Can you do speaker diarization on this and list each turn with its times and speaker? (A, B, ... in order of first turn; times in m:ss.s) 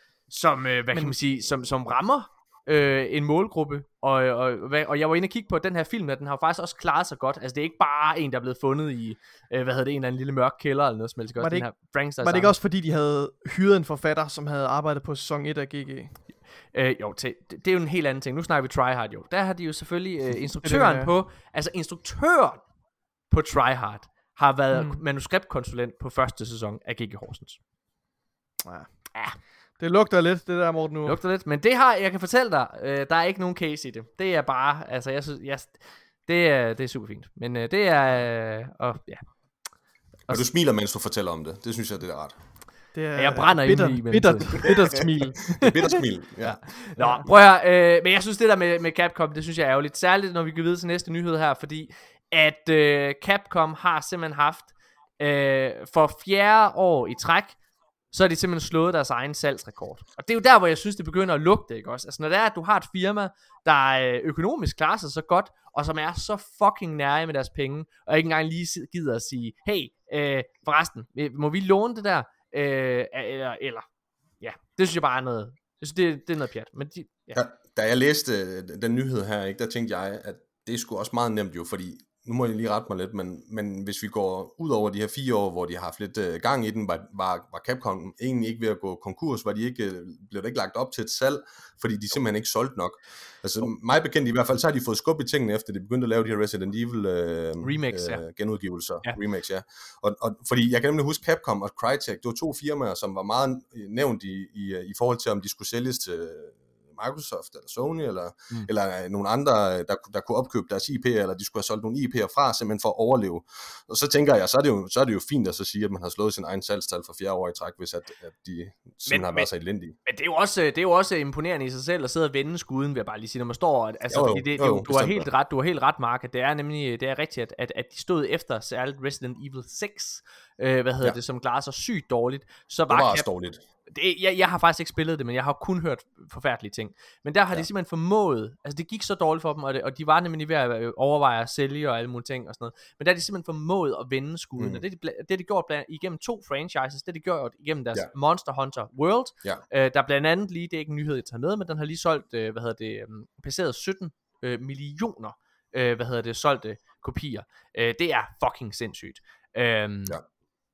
0:00.3-0:12.6 A
0:11.4-0:16.2 B
0:16.7-0:22.6 A
0:20.6-0:21.1 B
0:23.3-0:27.6 A
0:24.7-0:25.0 B
0:28.6-0:29.1 B
0:29.8-0:31.2 B
0:31.1-0:39.3 A
0:40.3-0:42.4 C
0:42.9-0:46.0 B
0:43.2-0:44.8 A
0:45.5-0:47.0 C
0:46.4-0:57.6 A
0:47.0-0:47.3 B
0:58.1-1:13.8 A
1:14.4-1:17.4 A
1:17.3-2:00.0 C
1:37.6-1:38.2 A
1:59.1-1:59.5 A
2:00.0-2:13.3 A
2:04.1-2:05.3 C
2:12.9-2:13.6 C
2:13.9-2:40.2 A
2:24.6-2:24.8 C